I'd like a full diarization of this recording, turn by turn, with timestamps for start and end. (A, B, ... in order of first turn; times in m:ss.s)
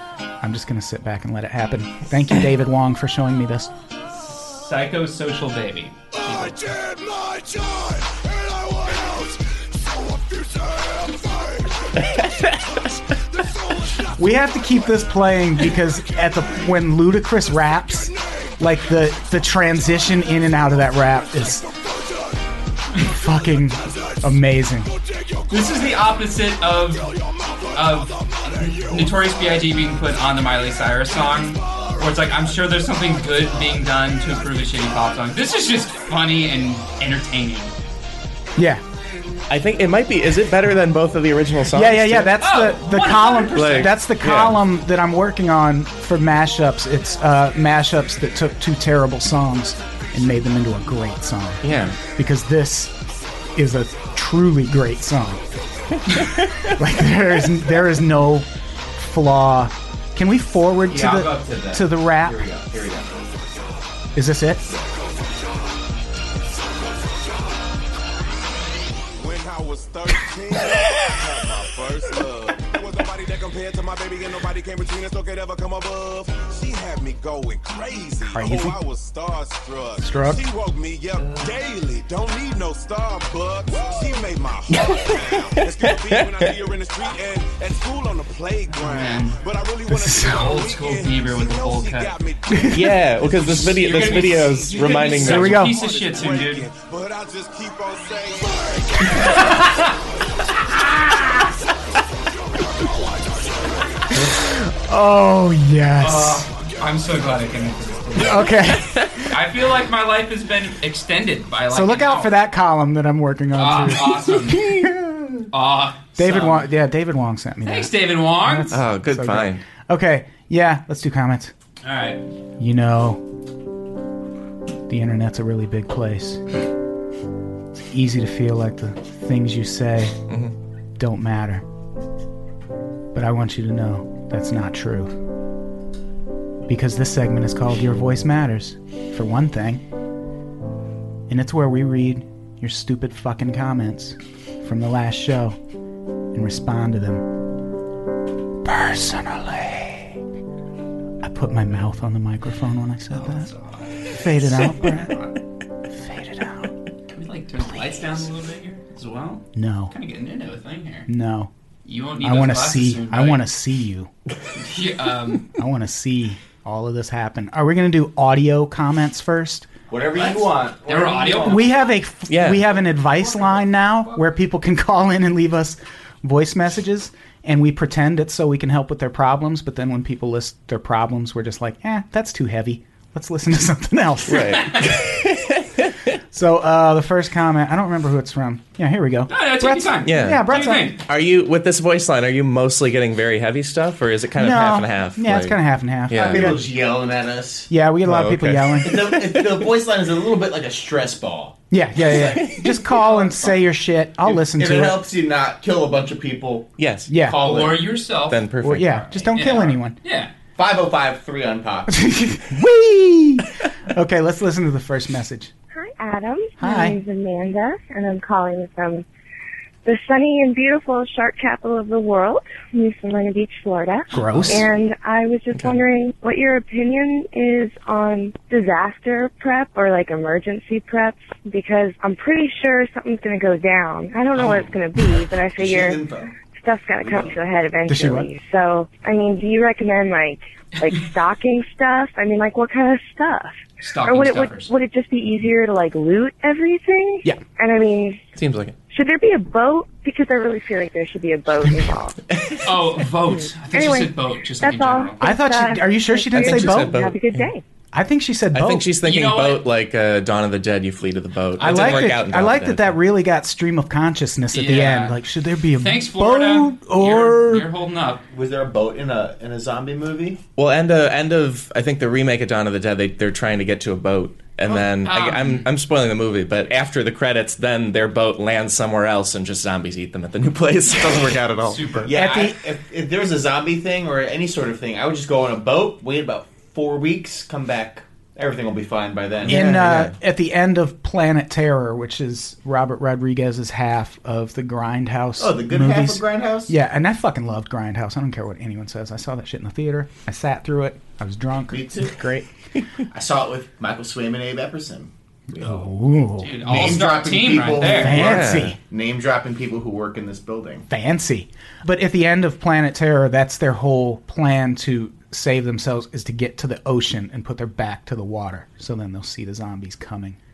0:00.4-0:03.7 A
0:04.3-0:06.5 B
0:06.1-0:14.7 C
0:14.2-0:21.6 A
0:16.1-0:16.6 C
0:18.0-0:18.9 C
0:20.1-0:24.2 C
0:23.0-0:24.9 A
0:24.8-0:36.5 C
0:25.5-0:27.1 B
0:27.7-0:37.7 B
0:38.6-0:38.8 A
0:39.5-0:42.4 D
0:41.7-0:52.9 A
0:42.4-0:44.0 B
0:43.5-0:44.6 D
0:51.6-0:52.0 D
0:51.7-0:51.9 B
0:53.5-0:55.4 A
0:56.1-1:02.4 A
0:56.1-0:56.7 D
1:00.9-1:03.3 E
1:04.1-1:04.6 A
1:04.7-1:05.7 C
1:06.4-1:07.8 C
1:08.6-1:44.2 C
1:18.2-1:18.8 A
1:20.0-1:20.4 A
1:21.2-1:21.5 B
1:25.4-1:26.5 D
1:28.7-1:29.4 B
1:29.9-1:30.6 A
1:30.2-1:32.1 B
1:32.5-1:32.9 A
1:32.7-1:35.7 D
1:33.6-1:36.7 B
1:35.2-1:35.8 A
1:39.2-1:39.9 B
1:44.1-1:46.5 A
1:46.0-1:52.4 B
1:46.4-1:48.6 C
1:48.2-1:49.0 A
1:51.7-1:55.5 A
1:53.5-1:54.7 B
1:55.5-1:56.7 B
1:56.2-2:01.5 A
1:57.6-1:58.8 B
1:58.7-1:59.6 D
2:01.8-2:02.2 B
2:02.6-2:03.2 A
2:04.9-2:06.5 A
2:07.7-2:10.2 A
2:10.3-2:10.5 D
2:11.0-2:11.6 A
2:13.1-2:15.1 A
2:16.7-2:19.8 A
2:21.3-2:25.6 A
2:26.3-2:27.3 A
2:28.6-2:30.2 A
2:31.2-2:33.5 A
2:33.1-2:35.3 B
2:34.0-2:35.2 A
2:35.9-2:36.7 A
2:37.1-2:41.1 B
2:39.5-2:39.9 A
2:41.1-2:41.5 A
2:41.8-2:43.4 B
2:42.2-2:44.1 A
2:44.6-2:45.5 B
2:45.5-2:49.7 A
2:49.9-2:51.7 E
2:50.1-2:51.8 B
2:51.4-3:05.1 A
2:52.3-2:52.6 D
3:04.2-3:06.1 D
3:06.3-3:10.9 A
3:09.3-3:11.0 B
3:10.0-3:16.6 D
3:14.4-3:16.6 A
3:16.2-3:17.7 E
3:17.7-3:19.2 A
3:18.0-3:19.6 D
3:18.8-3:21.6 E
3:21.7-3:25.0 A
3:22.1-3:22.8 D
3:22.9-3:23.5 E
3:24.2-3:26.7 E
3:26.8-3:27.5 D
3:27.1-3:27.4 A
3:27.2-3:30.3 B
3:27.4-3:27.7 E
3:28.3-3:29.0 D
3:28.6-3:30.0 A
3:30.6-3:32.0 E
3:31.9-3:35.5 A
3:35.7-3:39.0 F
3:36.6-3:37.0 A
3:39.8-3:56.0 F
3:44.1-3:44.7 A
3:44.2-3:44.5 B
3:45.5-3:45.8 D
3:55.6-3:56.3 E
3:56.6-4:08.2 F
3:57.0-3:57.4 E
3:57.9-3:58.3 A
4:03.8-4:04.7 B
4:08.4-4:08.8 D
4:08.9-4:12.2 F
4:12.4-4:12.6 D
4:12.6-4:15.2 B
4:13.2-4:17.6 F
4:15.2-4:17.0 A
4:16.3-4:17.4 D
4:17.9-4:18.9 A
4:18.5-4:23.0 D
4:19.0-4:19.6 B
4:21.6-4:27.7 A
4:21.6-4:22.1 B
4:24.5-4:25.2 B
4:25.8-4:28.2 B
4:28.3-4:30.4 E
4:30.6-4:42.0 D
4:35.0-4:35.7 B
4:41.6-4:42.5 B
4:42.0-4:49.6 E
4:42.2-4:42.5 A
4:49.4-4:50.2 D
4:49.5-5:02.5 A
4:55.4-4:56.7 E
5:01.7-5:02.2 E
5:03.1-5:05.1 E
5:05.5-5:07.1 A
5:06.4-5:08.3 B
5:06.6-5:10.8 E
5:07.8-5:08.8 A
5:08.1-5:08.8 D
5:10.9-5:20.4 A